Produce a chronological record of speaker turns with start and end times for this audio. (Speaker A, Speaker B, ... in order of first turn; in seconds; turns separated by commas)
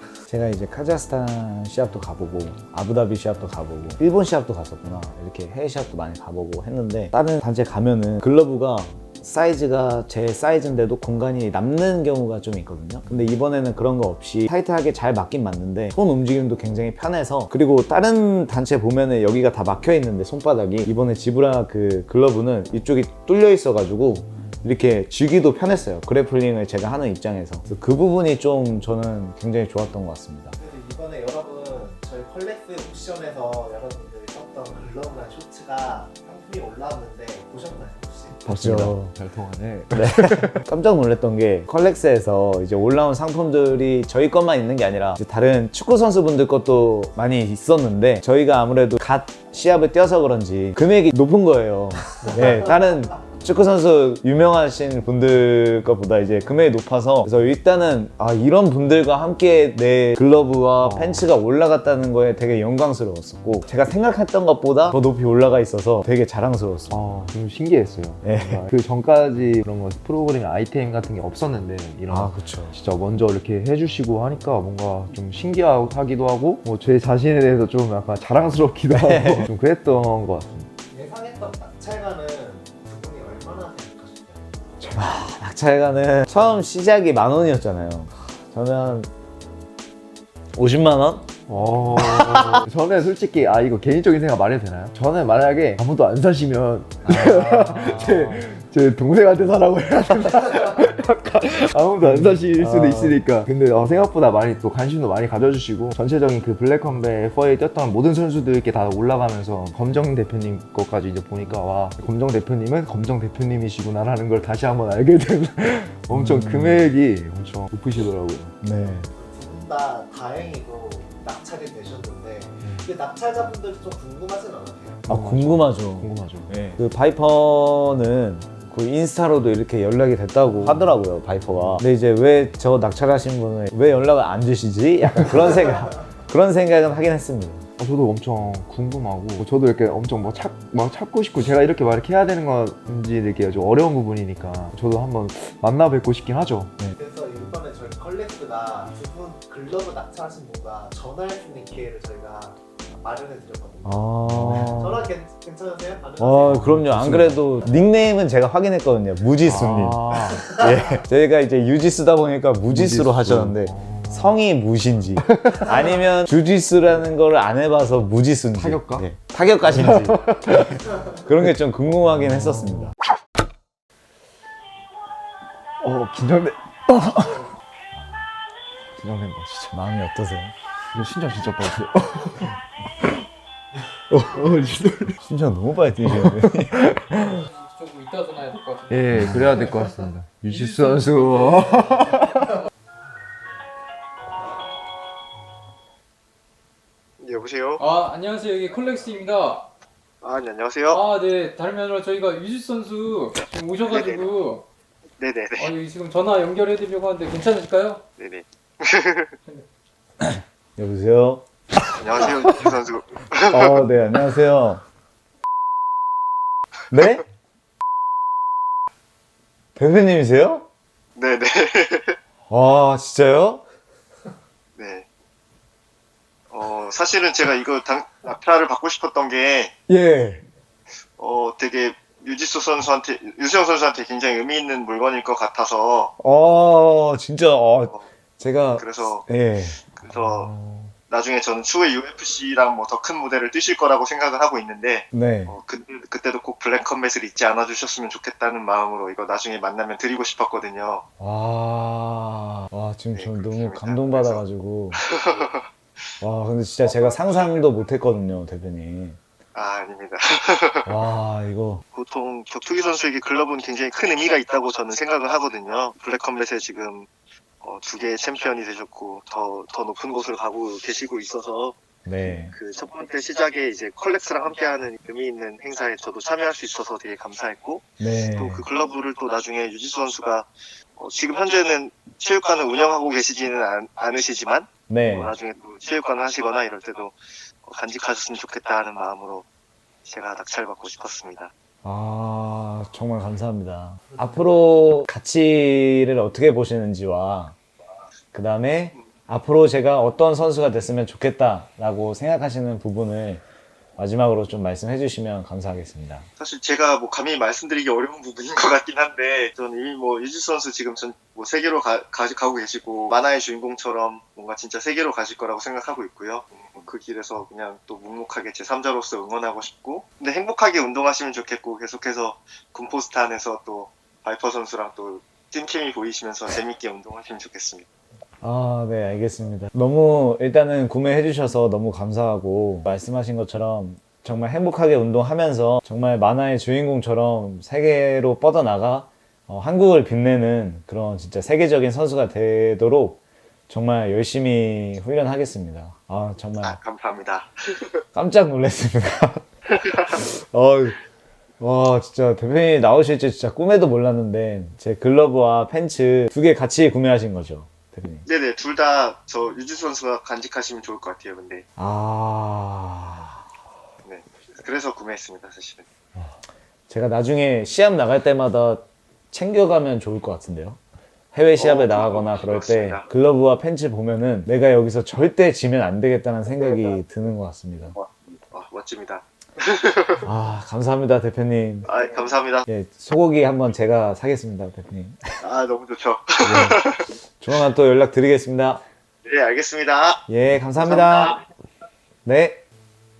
Speaker A: 0.3-30.6, Speaker B: 30.6-38.4, Speaker C: 38.4-40.6, Speaker A: 38.6-39.1, Speaker A: 39.9-67.0, Speaker C: 60.8-61.3, Speaker C: 66.9-80.7, Speaker A: 68.2-68.7, Speaker A: 72.1-72.7, Speaker A: 78.9-79.5, Speaker B: 80.9-84.7, Speaker A: 84.8-89.1, Speaker A: 90.5-91.3, Speaker C: 91.5-118.6, Speaker A: 92.0-92.6, Speaker A: 97.0-98.5, Speaker A: 102.0-103.2, Speaker A: 116.1-116.9, Speaker A: 118.6-119.1, Speaker B: 119.2-125.0, Speaker C: 122.6-122.9, Speaker A: 125.1-137.7, Speaker C: 125.1-126.5, Speaker C: 130.5-130.9, Speaker C: 131.5-131.8, Speaker C: 137.8-146.8, Speaker B: 146.9-154.1, Speaker C: 153.8-155.1, Speaker A: 154.3-154.7, Speaker B: 154.8-156.7, Speaker A: 156.2-170.3, Speaker C: 156.4-157.4, Speaker C: 159.4-160.5, Speaker C: 162.7-164.4, Speaker C: 165.4-165.7, Speaker C: 168.5-169.1, Speaker C: 169.6-170.9, Speaker A: 171.1-172.9, Speaker C: 172.2-172.9, Speaker C: 175.8-177.4, Speaker A: 177.9-178.2, Speaker C: 178.9-179.8, Speaker A: 179.7-180.5, Speaker C: 180.9-182.6, Speaker C: 184.1-185.2, Speaker A: 185.2-186.9, Speaker C: 186.1-187.4, Speaker D: 187.2-189.8, Speaker C: 188.9-192.5, Speaker A: 189.1-189.5, Speaker D: 190.5-191.8, Speaker E: 197.2-197.8, Speaker D: 197.8-199.7, Speaker E: 200.2-201.1, Speaker D: 200.9-204.7, Speaker E: 203.9-204.3, Speaker E: 205.2-205.8, Speaker D: 205.6-208.0, Speaker E: 208.2-209.3, Speaker A: 210.2-211.5, Speaker E: 212.0-213.8, Speaker A: 213.5-214.8, Speaker A: 216.9-217.2, Speaker A: 219.8-220.7, Speaker E: 221.2-222.2, Speaker A: 222.5-223.6, Speaker E: 224.8-225.1, Speaker E: 226.5-229.7, Speaker A: 229.9-230.4, Speaker E: 231.2-236.1, Speaker A: 236.2-239.8, Speaker E: 238.7-239.3, Speaker E: 239.9-240.5, Speaker C: 240.1-240.9, Speaker E: 241.1-251.0, Speaker A: 245.1-245.5, Speaker A: 251.2-255.0, Speaker E: 253.1-255.7, Speaker A: 256.2-259.2, Speaker E: 256.8-257.6, Speaker E: 259.5-260.9, Speaker A: 260.9-261.8, Speaker E: 261.9-267.1, Speaker E: 267.6-271.8, Speaker A: 272.0-272.5, Speaker E: 272.4-289.4, Speaker A: 278.0-278.6, Speaker A: 284.9-285.3, Speaker E: 290.0-291.5, Speaker A: 291.8-297.6, Speaker B: 294.1-294.4, Speaker A: 298.3-303.4, Speaker A: 304.0-306.2, Speaker E: 306.4-327.9, Speaker A: 328.4-346.8, Speaker E: 346.6-348.0, Speaker A: 348.1-349.4, Speaker E: 349.7-350.2, Speaker A: 350.1-351.0, Speaker A: 351.6-358.2, Speaker E: 358.2-361.6, Speaker A: 361.8-363.4, Speaker E: 364.0-365.8, Speaker A: 366.9-370.8, Speaker A: 371.3-377.9, Speaker E: 371.6-373.1, Speaker E: 377.9-380.2, Speaker A: 380.2-381.9, Speaker E: 381.8-382.6, Speaker A: 382.7-385.4, Speaker E: 385.4-387.1, Speaker C: 386.4-386.7, Speaker A: 386.5-386.8, Speaker A: 387.4-388.8, Speaker E: 389.2-390.3, Speaker A: 390.3-391.4, Speaker E: 390.8-391.4, Speaker A: 392.2-392.6